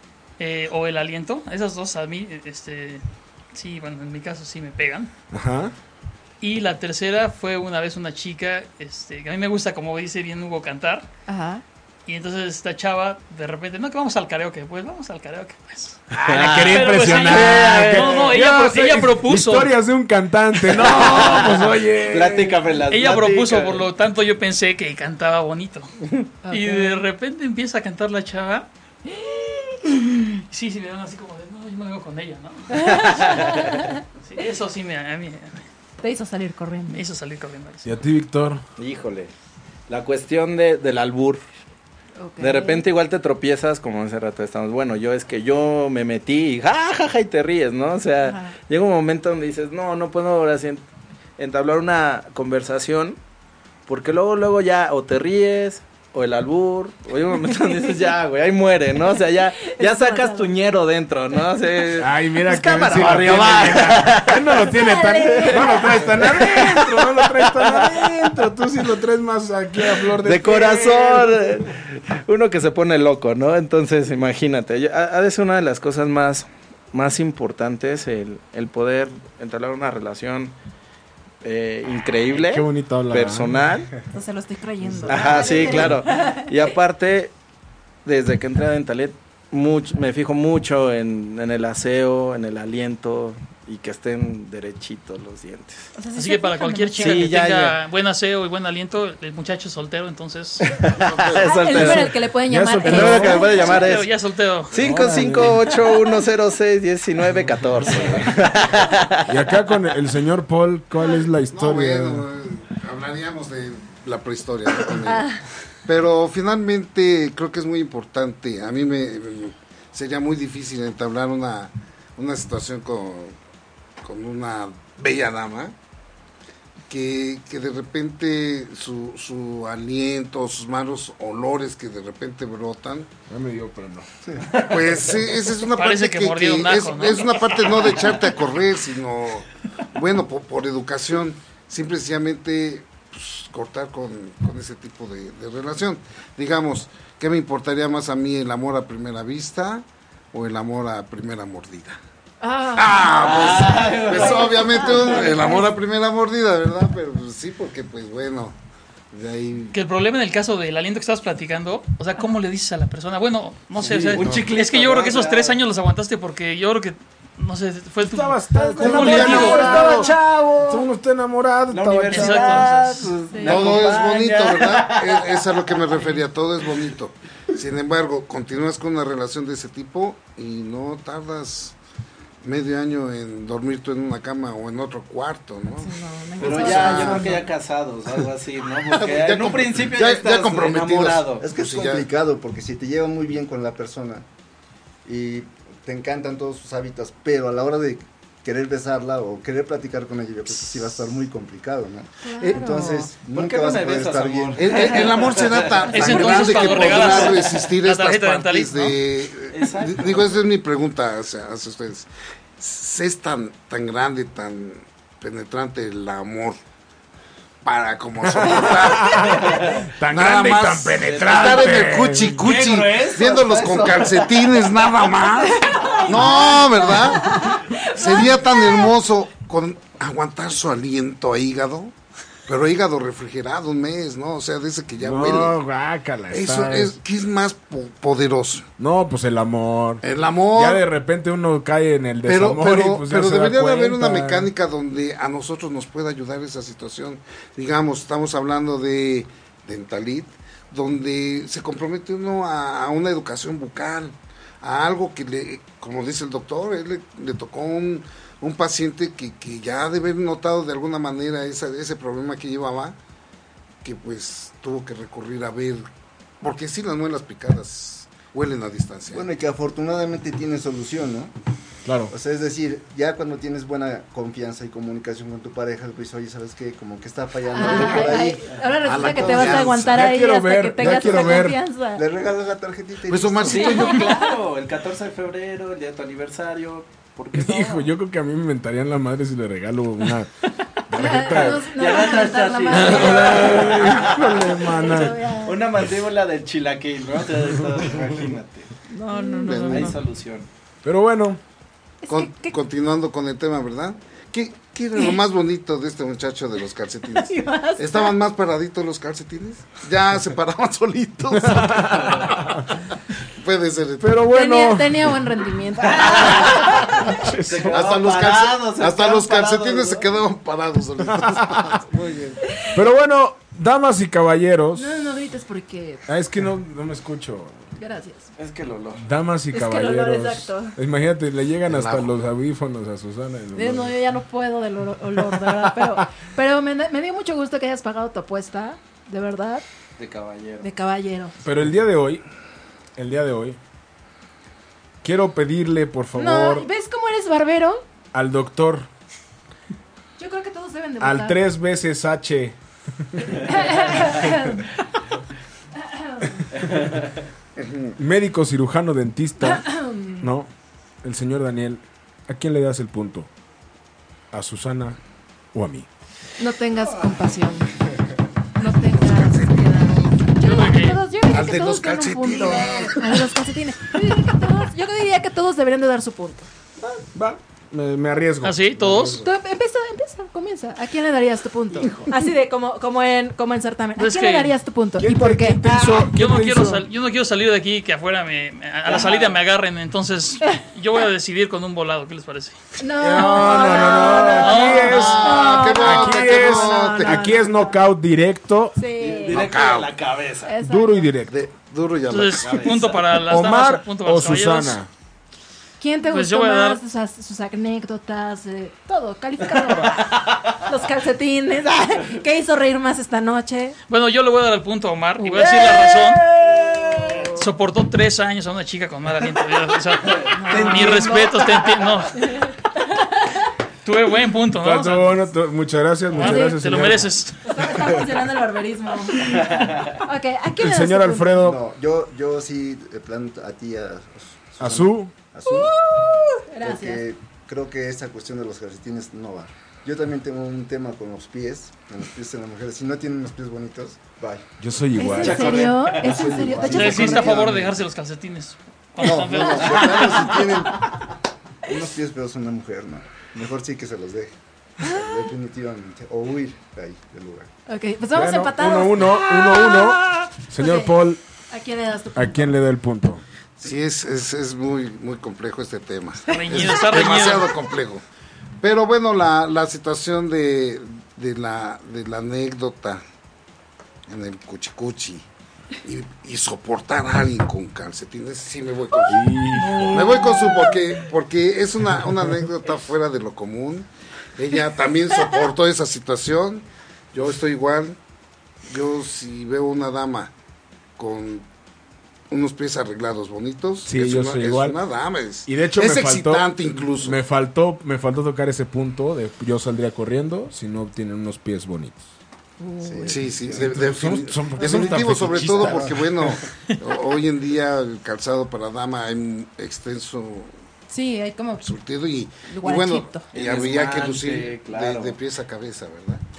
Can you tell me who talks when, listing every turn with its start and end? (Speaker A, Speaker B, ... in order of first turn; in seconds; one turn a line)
Speaker A: 0.4-5.1
Speaker B: 5.3-5.7
Speaker A: 6.4-11.1
Speaker C: 11.3-11.6
Speaker A: 12.1-16.1
Speaker B: 16.1-22.6
Speaker D: 16.2-18.4
Speaker A: 16.6-19.7
Speaker D: 20.7-23.9
Speaker A: 22.9-25.9
Speaker C: 26.4-27.0
Speaker A: 26.5-29.2
Speaker A: 29.8-33.3
Speaker C: 32.7-34.0
Speaker A: 34.2-35.6
Speaker C: 36.0-37.0
Speaker A: 36.9-37.9
Speaker B: 37.8-38.6
Speaker D: 38.8-39.3
Speaker D: 39.9-41.4
Speaker C: 42.2-42.8
Speaker D: 42.4-50.8
Speaker C: 48.2-48.5
Speaker D: 51.4-53.2
Speaker D: 53.9-64.5
Speaker C: 59.6-60.5
Speaker B: 62.0-71.7
Speaker C: 64.5-66.1
Speaker D: 65.4-68.0
Speaker D: 70.1-80.5
Speaker D: 81.4-83.9
Speaker B: 82.3-83.7
Speaker C: 84.1-86.5
Speaker D: 85.0-87.3
Speaker D: 88.0-95.9
Speaker C: 96.0-97.3
Speaker A: 96.1-100.8
Speaker D: 96.9-97.8
Speaker D: 100.8-102.2
Speaker E: 100.9-101.8
Speaker C: 101.3-104.0
Speaker B: 101.8-103.4
Speaker D: 102.8-104.1
Speaker A: 103.4-104.8
Speaker D: 104.7-109.3
Speaker B: 104.7-105.7
Speaker B: 109.3-112.2
Speaker E: 111.5-115.3
Speaker C: 115.0-115.4
Speaker E: 115.8-123.3
Speaker E: 124.0-125.7
Speaker E: 126.9-133.1
Speaker B: 133.3-134.1
Speaker E: 134.5-152.0
Speaker B: 134.6-135.0
Speaker A: 135.7-137.8
Speaker C: 152.4-155.7
Speaker E: 152.7-158.6
Speaker D: 153.1-155.4
Speaker E: 159.1-159.8
Speaker A: 159.7-169.8
Speaker E: 163.8-164.5
Speaker B: 163.9-164.3
Speaker D: 164.1-165.6
Speaker B: 168.0-170.2
Speaker D: 168.8-170.9
Speaker E: 168.9-169.7
Speaker C: 169.8-170.1
Speaker B: 170.7-172.8
Speaker D: 171.7-176.0
Speaker A: 172.1-173.2
Speaker C: 173.3-173.7
Speaker E: 173.4-181.8
Speaker E: 182.4-187.3
Speaker C: 185.8-187.4
Speaker D: 186.4-191.4
Speaker E: 188.8-192.1
Speaker F: 191.4-194.2
Speaker F: 195.0-204.7
Speaker C: 202.2-203.1
Speaker D: 203.2-207.4
Speaker E: 204.5-216.6
Speaker A: 205.9-208.9
Speaker D: 209.5-210.3
Speaker E: 217.6-231.9
Speaker B: 218.3-222.4
Speaker D: 219.4-219.8
Speaker D: 221.0-221.8
Speaker D: 222.4-224.7
Speaker C: 225.4-228.9
Speaker E: 232.5-235.6
Speaker B: 235.0-237.0
Speaker E: 236.3-238.7
Speaker B: 238.8-244.5
Speaker E: 240.0-240.8
Speaker E: 242.2-263.0
Speaker E: 263.8-265.9
Speaker E: 266.4-269.2
Speaker F: 269.1-271.3
Speaker B: 271.8-272.1
Speaker F: 272.1-279.6
Speaker C: 277.5-282.0
Speaker D: 277.7-278.1
Speaker E: 278.8-279.9
Speaker B: 279.6-281.6
Speaker F: 281.0-281.4
Speaker F: 281.9-283.7
Speaker E: 283.1-284.2
Speaker D: 283.4-287.9
Speaker C: 283.5-284.4
Speaker B: 287.3-290.3
Speaker B: 290.9-291.8
Speaker C: 290.9-295.6
Speaker D: 291.7-294.6
Speaker B: 292.7-295.2
Speaker D: 295.4-298.7
Speaker C: 298.9-299.9
Speaker A: 299.1-299.6
Speaker E: 299.3-300.0
Speaker D: 299.7-300.5
Speaker B: 300.8-301.4
Speaker C: 302.0-302.6
Speaker E: 302.1-312.5
Speaker C: 307.1-308.1
Speaker B: 311.4-312.6
Speaker E: 313.4-314.2
Speaker B: 314.0-315.2
Speaker C: 314.3-317.3
Speaker D: 315.9-316.8
Speaker B: 317.1-317.8
Speaker D: 317.4-320.1
Speaker E: 317.6-322.4
Speaker B: 321.3-321.6
Speaker C: 322.5-322.8
Speaker B: 322.7-324.9
Speaker C: 324.8-326.0
Speaker B: 326.1-327.7
Speaker C: 327.8-328.3
Speaker D: 328.4-329.0
Speaker B: 329.0-333.9
Speaker C: 329.5-330.8
Speaker E: 331.6-332.1
Speaker C: 333.5-339.6
Speaker D: 340.0-340.7
Speaker C: 340.6-341.4
Speaker B: 341.4-342.2
Speaker B: 342.9-343.6
Speaker B: 345.0-346.7
Speaker C: 346.1-347.8
Speaker B: 348.1-348.9
Speaker C: 350.2-351.4
Speaker B: 351.0-353.5
Speaker C: 353.3-354.8
Speaker C: 355.8-356.5
Speaker E: 357.6-357.9
Speaker B: 358.0-359.6
Speaker C: 359.4-360.3
Speaker B: 360.2-360.5
Speaker B: 361.0-363.3
Speaker B: 364.3-365.0
Speaker B: 365.5-365.9
Speaker C: 366.4-367.7
Speaker C: 368.6-376.5
Speaker E: 369.2-369.5
Speaker A: 370.4-371.0
Speaker E: 371.2-373.2
Speaker B: 377.1-379.2
Speaker A: 378.4-379.2
Speaker E: 378.9-379.1
Speaker C: 379.2-386.0
Speaker D: 381.7-382.1
Speaker A: 384.0-384.5
Speaker B: 385.0-386.9
Speaker A: 386.1-392.6
Speaker D: 389.0-389.3
Speaker C: 392.8-397.7
Speaker E: 393.0-397.3
Speaker B: 393.0-398.8
Speaker A: 394.4-395.2
Speaker C: 398.8-399.4
Speaker D: 399.0-400.6
Speaker E: 399.3-400.0
Speaker C: 400.4-401.1
Speaker B: 400.6-401.4
Speaker E: 401.3-403.0
Speaker A: 402.1-404.8
Speaker D: 402.4-403.2
Speaker B: 403.2-404.9
Speaker C: 405.8-413.8
Speaker A: 406.0-406.8
Speaker D: 409.6-410.6
Speaker A: 413.9-416.2
Speaker C: 415.2-417.4
Speaker A: 417.1-422.3
Speaker D: 420.1-421.3
Speaker C: 420.3-423.2
Speaker A: 423.8-425.2
Speaker B: 424.5-427.2
Speaker C: 426.1-426.8
Speaker A: 426.1-427.4
Speaker C: 427.4-431.4
Speaker D: 429.4-430.0
Speaker B: 430.6-431.6
Speaker F: 431.4-435.7
Speaker B: 434.6-435.1
Speaker C: 435.5-437.1
Speaker F: 436.6-444.5
Speaker B: 444.6-447.7
Speaker C: 445.0-447.4
Speaker D: 445.0-446.3
Speaker F: 446.1-447.6
Speaker A: 446.6-450.4
Speaker F: 449.0-451.0
Speaker F: 451.6-457.5
Speaker C: 454.8-455.2
Speaker C: 457.7-460.9
Speaker B: 458.1-461.2
Speaker C: 461.5-462.5
Speaker B: 462.1-463.2
Speaker E: 463.6-468.0
Speaker A: 466.3-467.5
Speaker C: 466.3-466.8
Speaker E: 468.6-473.0
Speaker E: 474.1-475.2
Speaker E: 475.8-479.2
Speaker B: 479.1-480.2
Speaker C: 479.5-480.9
Speaker E: 479.8-488.0
Speaker E: 488.7-490.3
Speaker E: 491.0-491.4
Speaker E: 492.3-497.2
Speaker B: 493.8-494.8
Speaker B: 495.4-502.1
Speaker C: 502.6-503.3
Speaker F: 502.8-503.8
Speaker E: 503.1-510.5
Speaker B: 503.5-505.9
Speaker F: 505.6-506.0
Speaker C: 510.9-511.7
Speaker E: 511.6-516.2
Speaker C: 512.5-513.3
Speaker D: 513.3-515.2